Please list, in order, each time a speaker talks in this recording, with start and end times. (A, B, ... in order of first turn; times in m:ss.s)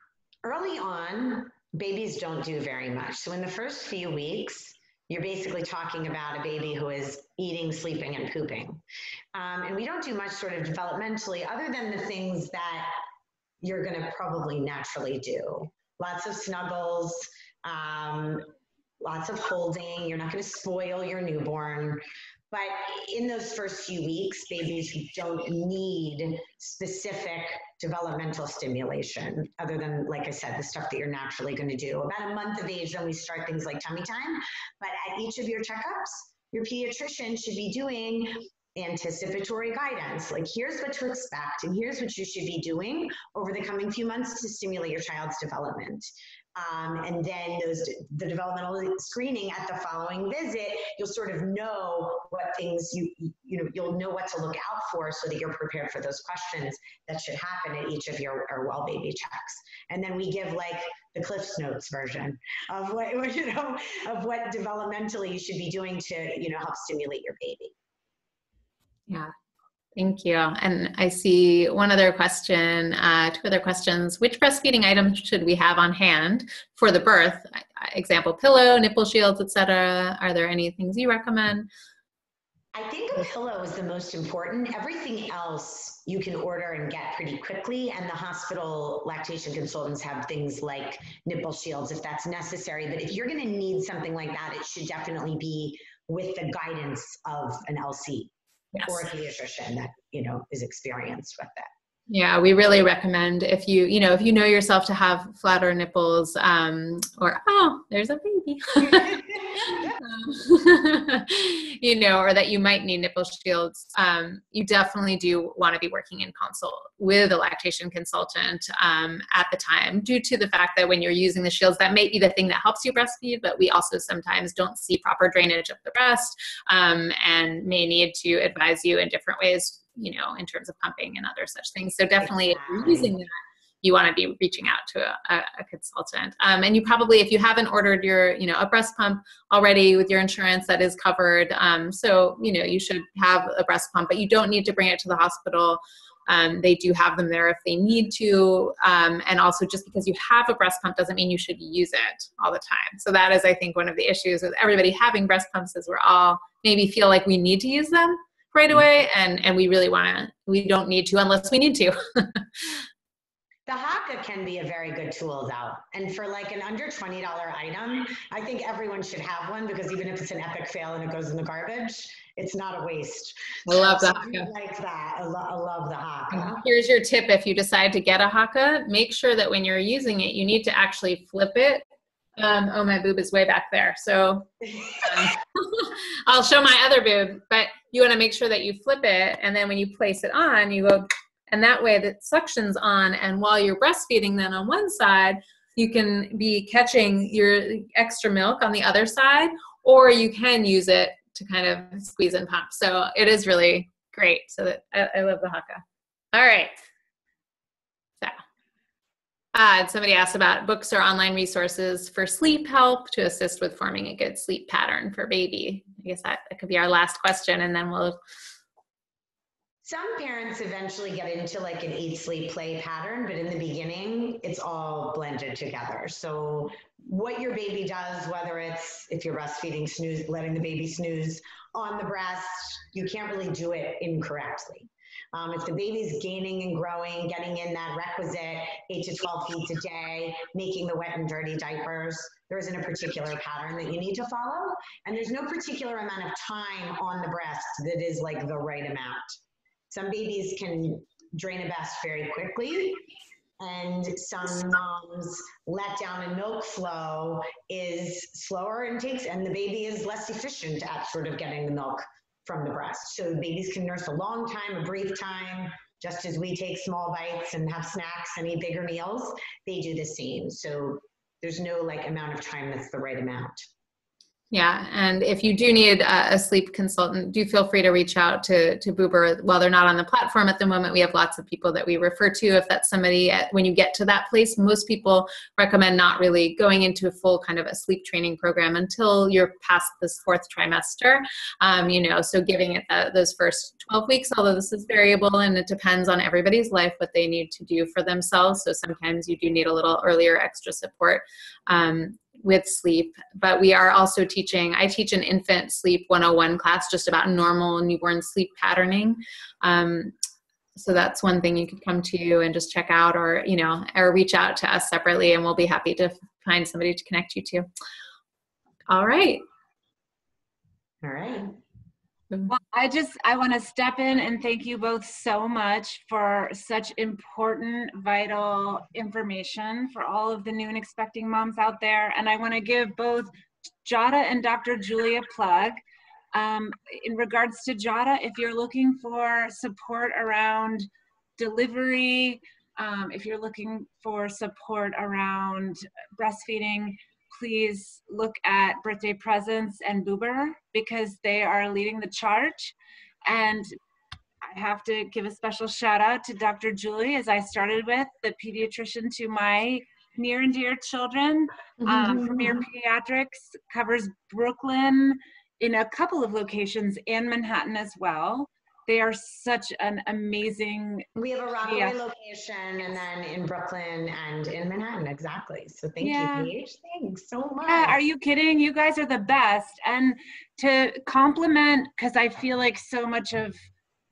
0:00.4-0:08.8 A
0:09.3-0:13.0 A
0:13.6-0:18.5 A
0:19.0-1:07.7 A
1:10.0-1:21.7 B
1:22.7-1:41.7 A
1:38.7-1:39.0 B
1:42.1-2:13.3 B
1:48.9-1:49.9 A
2:12.2-2:13.2 A
2:13.8-2:42.9 B
2:43.7-2:56.6 A
2:53.7-2:54.5 B
2:56.3-3:01.8 B
3:02.4-3:25.8 B
3:04.7-3:05.3 A
3:26.3-3:26.7 B
3:29.5-3:38.2 B
3:39.8-4:09.4 A
4:09.9-4:13.1 A
4:13.6-4:33.7 A
4:34.5-5:10.1 B
5:10.8-5:17.7 B
5:18.9-5:19.4 B
5:21.0-5:21.6 A
5:22.5-5:33.3 C
5:33.8-5:35.8 C
5:36.3-5:53.7 C
5:54.4-6:11.1 C
6:01.9-6:02.6 B
6:11.2-6:18.0 A
6:11.6-6:12.0 C
6:16.0-6:16.5 C
6:17.6-6:23.6 C